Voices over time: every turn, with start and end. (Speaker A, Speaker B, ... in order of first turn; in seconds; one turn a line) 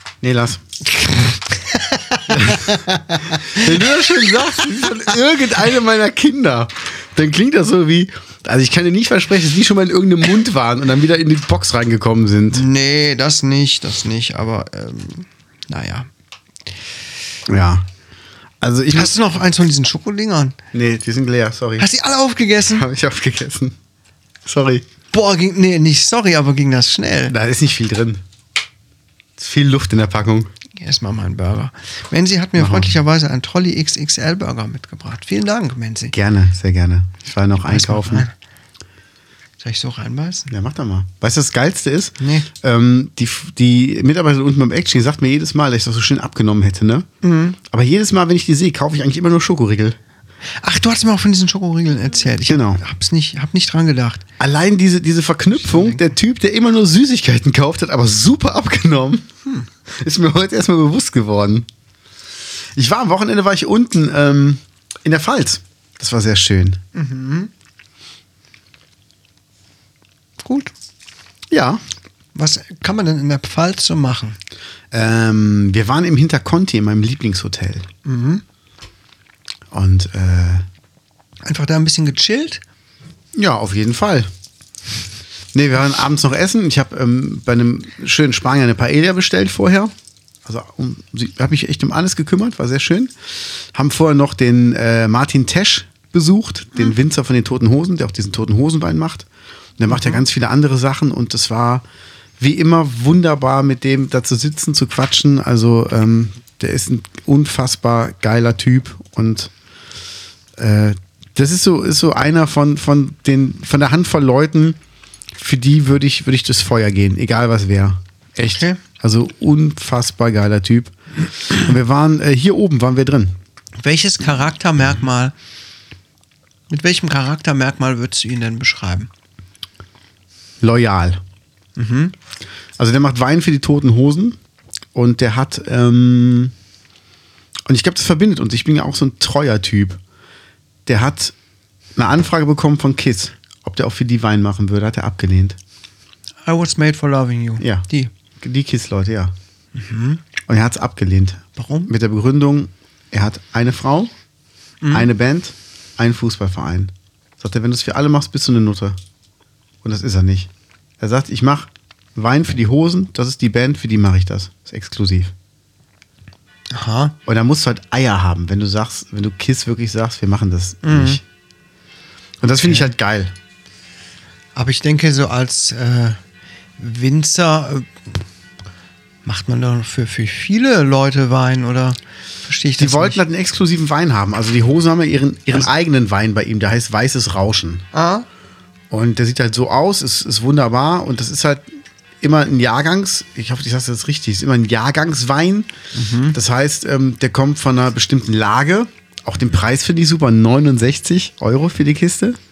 Speaker A: 0.2-0.6
Speaker B: 0.9-3.7
Speaker A: 2.3-2.8
Speaker A: 3.4-12.6
Speaker B: 12.5-16.1
Speaker A: 17.5-17.9
Speaker A: 18.6-19.1
Speaker B: 18.9-20.6
Speaker A: 20.7-21.9
Speaker B: 21.8-22.9
Speaker A: 22.7-23.8
Speaker A: 24.4-24.9
Speaker B: 25.1-27.4
Speaker A: 27.3-28.2
Speaker A: 29.4-30.5
Speaker B: 30.8-36.1
Speaker A: 32.6-32.9
Speaker A: 36.1-38.3
Speaker B: 37.6-38.3
Speaker B: 39.6-40.5
Speaker A: 40.5-47.1
Speaker B: 42.2-42.5
Speaker B: 47.2-47.6
Speaker A: 47.7-50.0
Speaker B: 50.6-54.2
Speaker A: 52.5-52.8
Speaker A: 54.4-59.3
Speaker B: 55.6-56.0
Speaker A: 59.9-61.7
Speaker A: 62.8-66.8
Speaker B: 67.0-67.5
Speaker B: 70.4-70.7
Speaker A: 71.5-71.8
Speaker B: 72.3-74.4
Speaker A: 74.9-77.9
Speaker B: 78.0-78.4
Speaker A: 79.7-80.7
Speaker B: 81.5-82.6
Speaker A: 83.3-84.3
Speaker A: 85.5-89.9
Speaker A: 90.5-93.1
Speaker A: 93.7-99.3
Speaker A: 99.8-101.8
Speaker B: 99.9-100.2
Speaker A: 102.4-109.5
Speaker A: 110.6-114.8
Speaker A: 115.3-120.9
Speaker B: 118.4-118.8
Speaker A: 121.5-123.4
Speaker B: 123.8-125.3
Speaker B: 126.7-129.1
Speaker A: 130.6-131.2
Speaker B: 131.8-132.1
Speaker A: 132.8-134.4
Speaker A: 134.9-136.5
Speaker A: 137.7-140.0
Speaker A: 140.9-141.3
Speaker A: 142.0-145.6
Speaker B: 146.5-148.1
Speaker A: 147.6-147.8
Speaker A: 148.4-149.3
Speaker B: 149.8-150.2
Speaker A: 150.5-154.1
Speaker B: 151.6-151.9
Speaker B: 154.8-155.1
Speaker A: 154.9-159.0
Speaker A: 159.8-165.3
Speaker B: 166.7-167.2
Speaker A: 167.3-171.2
Speaker B: 170.8-171.2
Speaker A: 172.4-173.3
Speaker B: 172.6-172.9
Speaker B: 174.6-176.2
Speaker B: 176.8-178.0
Speaker B: 179.2-183.2
Speaker A: 182.8-187.9
Speaker B: 187.9-188.2
Speaker A: 188.9-191.7
Speaker A: 192.2-195.7
Speaker B: 195.9-196.4
Speaker A: 196.3-202.4